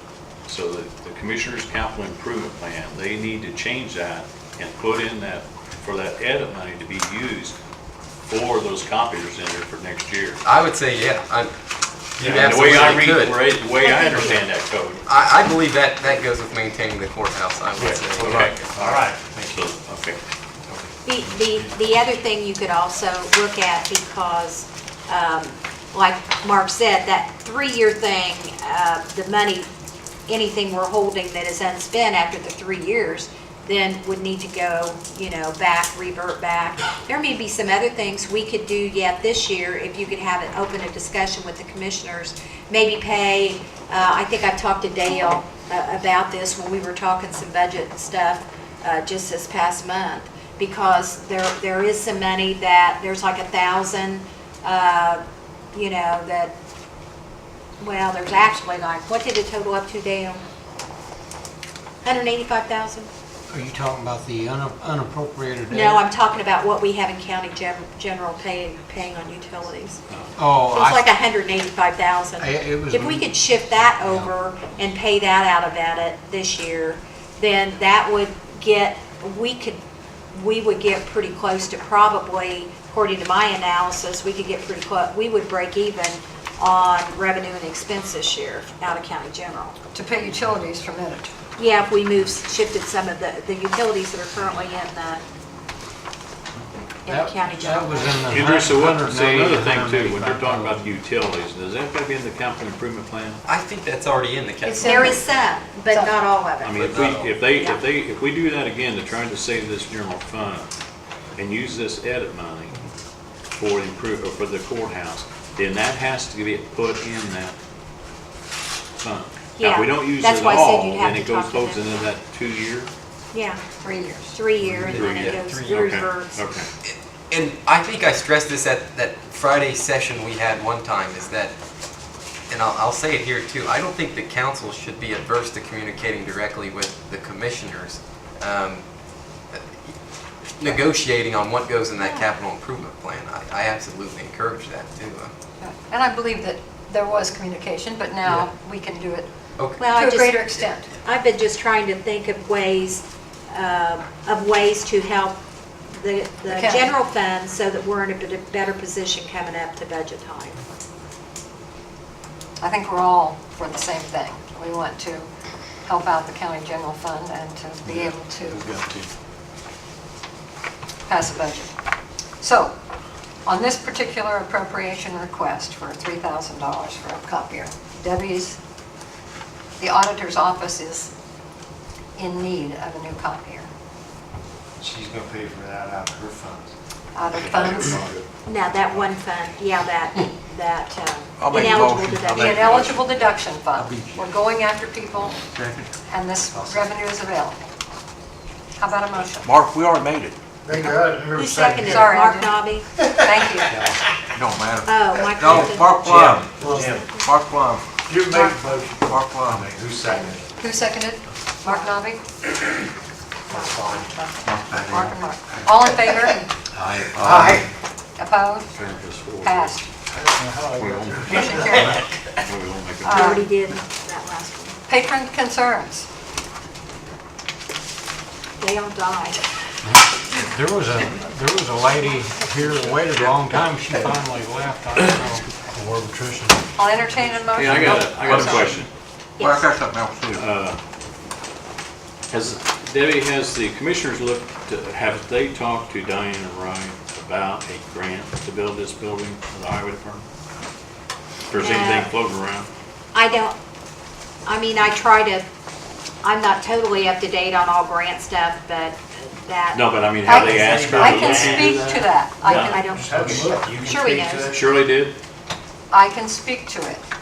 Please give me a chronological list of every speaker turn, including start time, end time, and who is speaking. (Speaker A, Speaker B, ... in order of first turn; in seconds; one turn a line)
Speaker A: 0.5-7.6
Speaker A: 8.3-10.4
Speaker B: 10.4-11.5
Speaker B: 12.2-13.4
Speaker A: 12.2-15.0
Speaker C: 13.8-14.4
Speaker B: 15.1-18.8
Speaker A: 17.8-20.2
Speaker D: 18.2-19.7
Speaker C: 21.0-29.7
Speaker C: 30.3-55.2
Speaker C: 55.7-56.5
Speaker C: 57.8-60.4
Speaker C: 62.0-63.1
Speaker E: 63.5-66.0
Speaker C: 65.7-70.0
Speaker A: 70.1-70.3
Speaker E: 70.3-71.1
Speaker C: 70.7-79.8
Speaker E: 72.4-73.4
Speaker E: 74.0-74.3
Speaker C: 80.3-89.8
Speaker F: 89.9-91.3
Speaker C: 91.6-95.2
Speaker C: 97.0-98.3
Speaker E: 97.1-100.9
Speaker A: 98.3-103.4
Speaker B: 103.4-105.2
Speaker F: 104.6-105.2
Speaker C: 104.8-106.9
Speaker F: 105.9-106.2
Speaker A: 106.6-110.7
Speaker B: 106.8-107.3
Speaker A: 111.3-112.8
Speaker A: 113.5-117.5
Speaker A: 119.0-122.9
Speaker C: 119.5-122.0
Speaker C: 123.3-123.6
Speaker F: 123.8-124.4
Speaker C: 124.3-126.4
Speaker B: 124.6-126.0
Speaker A: 124.8-125.1
Speaker A: 125.7-126.7
Speaker B: 126.8-131.5
Speaker B: 132.5-138.8
Speaker B: 139.5-139.9
Speaker B: 140.6-145.3
Speaker C: 142.0-142.2
Speaker F: 145.6-149.3
Speaker C: 149.8-155.4
Speaker F: 149.8-150.9
Speaker C: 155.9-160.6
Speaker F: 156.5-156.9
Speaker F: 162.6-165.3
Speaker F: 165.8-168.7
Speaker D: 167.9-169.1
Speaker F: 171.1-171.7
Speaker F: 172.4-172.7
Speaker F: 173.4-178.6
Speaker F: 179.8-181.1
Speaker F: 182.2-183.7
Speaker D: 184.8-186.7
Speaker F: 187.1-188.0
Speaker A: 187.3-188.2
Speaker D: 187.5-188.2
Speaker C: 188.4-192.9
Speaker G: 191.4-193.0
Speaker F: 192.3-195.4
Speaker G: 195.5-195.9
Speaker F: 196.1-197.6
Speaker D: 196.4-197.0
Speaker F: 198.8-199.5
Speaker G: 199.4-201.0
Speaker D: 200.7-202.1
Speaker C: 201.3-202.9
Speaker F: 201.8-202.7
Speaker D: 203.0-204.1
Speaker F: 203.2-203.8
Speaker G: 204.3-206.6
Speaker C: 204.8-207.3
Speaker D: 205.2-207.1
Speaker A: 206.1-206.3
Speaker G: 207.2-207.9
Speaker D: 207.9-210.4
Speaker F: 208.3-208.6
Speaker G: 209.1-209.6
Speaker F: 210.1-212.2
Speaker F: 213.5-216.5
Speaker D: 213.5-215.9
Speaker D: 216.8-217.7
Speaker G: 217.1-217.6
Speaker F: 218.2-218.7
Speaker A: 218.7-219.8
Speaker F: 219.4-219.8
Speaker E: 220.5-220.9
Speaker A: 220.7-223.3
Speaker F: 221.2-222.0
Speaker F: 223.0-223.5
Speaker C: 223.1-224.8
Speaker F: 224.9-226.1
Speaker C: 228.6-229.4
Speaker E: 229.8-236.6
Speaker F: 236.8-238.8
Speaker A: 237.5-238.9
Speaker C: 239.4-239.7
Speaker G: 239.4-240.4
Speaker A: 240.3-240.8
Speaker A: 242.3-250.3
Speaker A: 251.5-252.7
Speaker C: 251.6-252.1
Speaker C: 253.1-253.6
Speaker C: 254.4-255.4
Speaker C: 256.2-259.9
Speaker A: 259.7-262.7
Speaker F: 260.2-263.4
Speaker D: 260.4-261.7
Speaker D: 262.5-264.8
Speaker C: 262.5-264.5
Speaker A: 264.4-265.1
Speaker F: 265.9-267.0